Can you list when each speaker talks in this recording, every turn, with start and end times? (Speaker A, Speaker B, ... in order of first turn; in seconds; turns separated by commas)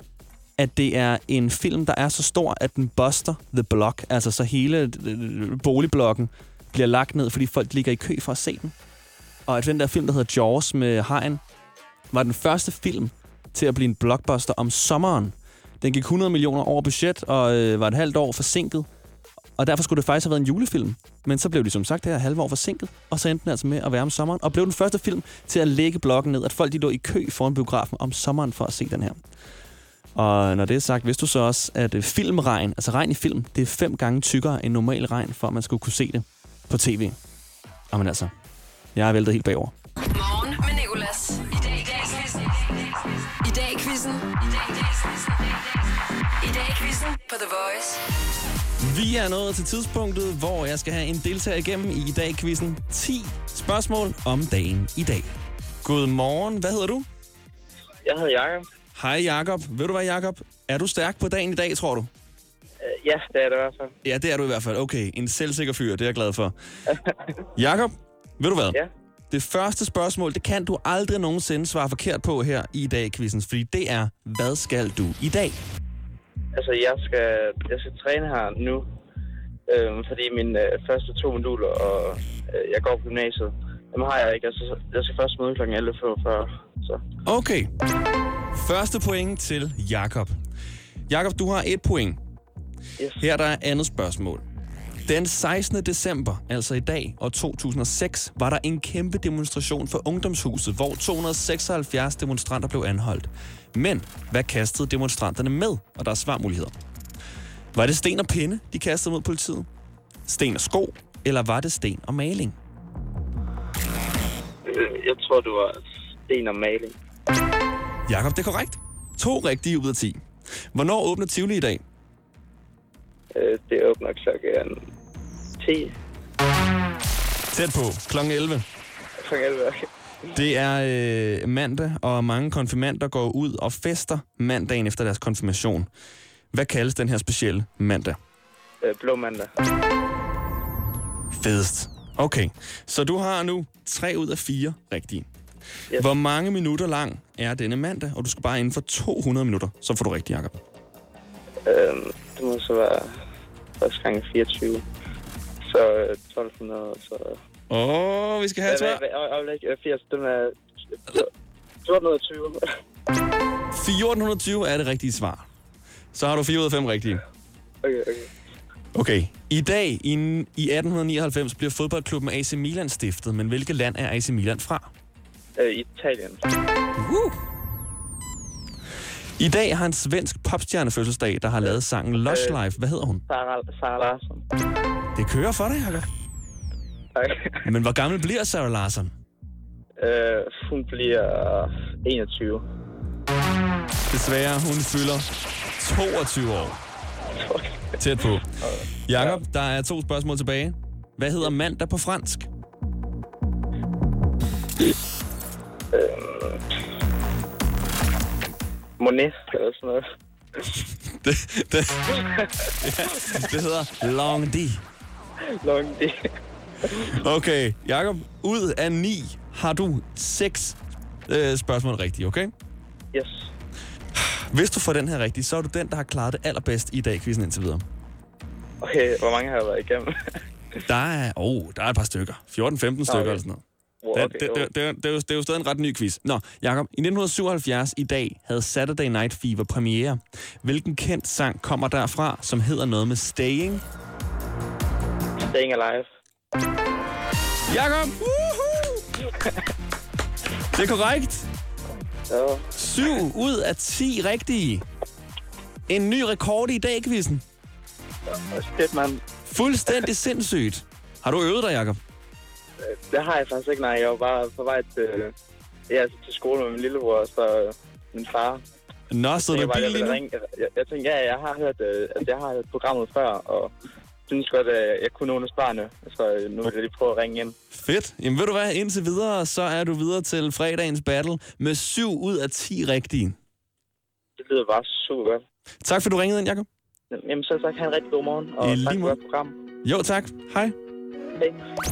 Speaker A: 0.6-8.7, Speaker A: 9.5-11.4, Speaker A: 12.1-18.9, Speaker A: 19.6-29.2, Speaker A: 30.2-37.2, Speaker A: 37.9-38.3, Speaker A: 39.0-39.7, Speaker B: 40.1-45.8, Speaker B: 46.4-48.0, Speaker A: 48.8-55.3, Speaker A: 55.8-57.1, Speaker C: 58.0-58.7, Speaker A: 59.0-62.1, Speaker C: 62.8-63.9, Speaker A: 64.0-66.5, Speaker A: 67.6-68.8, Speaker A: 69.3-75.6, Speaker C: 76.5-78.8, Speaker C: 79.7-87.0, Speaker A: 87.2-87.7, Speaker A: 88.5-90.3, Speaker A: 91.1-92.2, Speaker A: 93.2-94.4, Speaker A: 95.1-106.7, Speaker A: 107.7-109.7, Speaker A: 110.3-112.6, Speaker C: 114.7-117.0, Speaker A: 118.1-121.8, Speaker C: 123.3-124.8, Speaker C: 125.6-125.9, Speaker A: 127.5-128.7, Speaker C: 129.2-129.9, Speaker A: 130.3-135.9, Speaker A: 136.5-138.2, Speaker C: 138.8-139.5, Speaker A: 141.3-145.3, Speaker A: 145.9-150.6, Speaker C: 151.7-153.2, Speaker C: 153.8-154.8, Speaker C: 155.7-157.4, Speaker A: 157.7-159.0, Speaker C: 158.7-160.6, Speaker C: 161.8-162.6, Speaker A: 163.7-165.5, Speaker A: 166.1-167.2, Speaker C: 167.8-168.3, Speaker A: 168.9-174.9, Speaker C: 175.6-176.4, Speaker A: 177.0-177.4, Speaker A: 179.4-183.2, Speaker C: 181.6-182.6, Speaker C: 183.3-184.4, Speaker A: 185.2-186.1, Speaker C: 187.2-187.6, Speaker A: 187.6-189.1, Speaker C: 190.0-192.6, Speaker A: 194.1-195.3, Speaker A: 195.8-196.8, Speaker C: 197.3-197.8, Speaker A: 198.0-198.5, Speaker C: 198.6-199.4, Speaker A: 199.1-202.5, Speaker C: 205.9-206.6, Speaker C: 209.0-210.1, Speaker A: 211.2-212.1, Speaker A: 212.8-214.8, Speaker C: 215.6-216.3, Speaker A: 217.1-220.8, Speaker A: 221.3-222.5, Speaker C: 223.1-223.5, Speaker A: 224.2-227.8, Speaker C: 228.8-230.1, Speaker A: 230.9-233.6, Speaker C: 233.1-233.4, Speaker C: 234.0-234.7, Speaker A: 234.2-243.8, Speaker C: 245.4-246.1, Speaker A: 247.7-249.0, Speaker A: 250.7-251.5, Speaker C: 252.3-252.7, Speaker A: 252.8-254.8, Speaker A: 255.9-257.4, Speaker C: 258.3-259.2, Speaker A: 259.5-262.0, Speaker C: 262.8-265.3, Speaker C: 265.9-268.6, Speaker A: 269.1-270.2, Speaker C: 269.4-273.7, Speaker C: 274.3-277.5, Speaker A: 277.7-283.4, Speaker C: 284.4-285.4, Speaker A: 285.8-286.7, Speaker C: 287.1-289.5, Speaker A: 288.6-289.2, Speaker A: 289.8-290.8